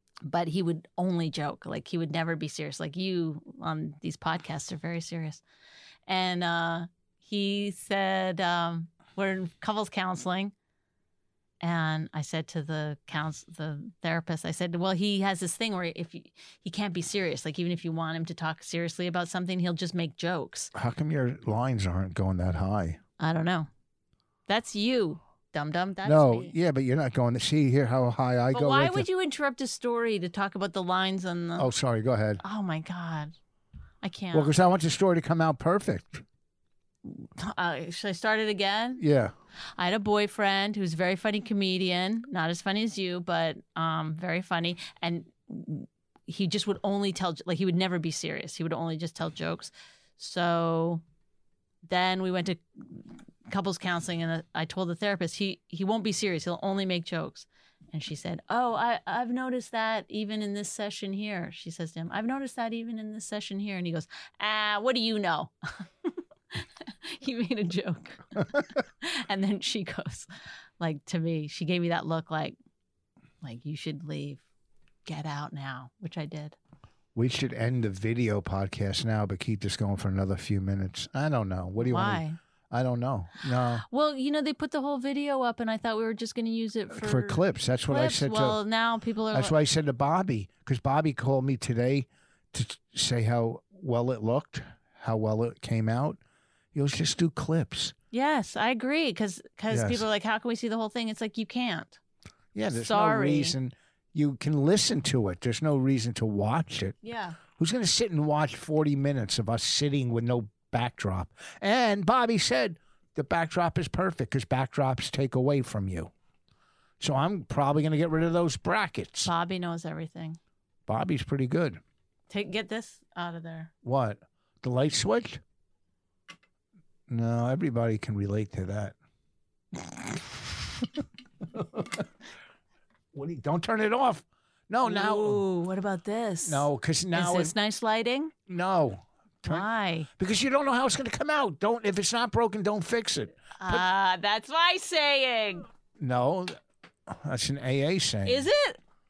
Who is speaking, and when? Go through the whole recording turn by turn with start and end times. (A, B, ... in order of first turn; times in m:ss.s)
0:00.2-0:05.4 A
0:06.1-0:10.5 A
0:11.6-0:20.7 A
0:20.7-0:23.0 B
0:23.2-0:23.7 A
0:24.5-0:26.6 A
0:26.0-0:29.1 B
0:28.5-0:31.7 A
0:31.6-0:32.4 B
0:32.4-0:33.3 A
0:34.0-0:34.5 A
0:34.3-0:36.2 B
0:37.0-0:39.0 A
0:39.0-0:39.3 B
0:39.8-0:51.0 A
0:51.8-1:10.3 A
1:10.8-1:12.6 A
1:13.4-1:14.4 A
1:15.0-1:16.6 A
1:17.2-1:23.8 B
1:21.8-1:22.4 A
1:23.8-1:29.6 A
1:26.9-1:28.6 B
1:29.3-1:36.2 B
1:36.7-1:37.9 B
1:38.1-1:42.0 A
1:39.7-1:40.1 B
1:42.6-1:47.0 B
1:42.7-1:43.6 A
1:47.0-1:47.4 A
1:47.5-1:56.1 B
1:57.0-1:59.3 B
1:59.2-2:00.4 A
2:00.9-2:01.8 B
2:02.3-2:03.7 A
2:03.8-2:05.4 B
2:07.1-2:09.0 B
2:11.5-2:12.1 B
2:13.1-2:15.4 B
2:14.8-2:18.3 A
2:16.4-2:17.5 B
2:18.5-2:19.7 B
2:19.4-2:20.1 A
2:20.2-2:23.8 B
2:23.6-2:25.7 A
2:26.0-2:28.5 B
2:28.2-2:28.8 A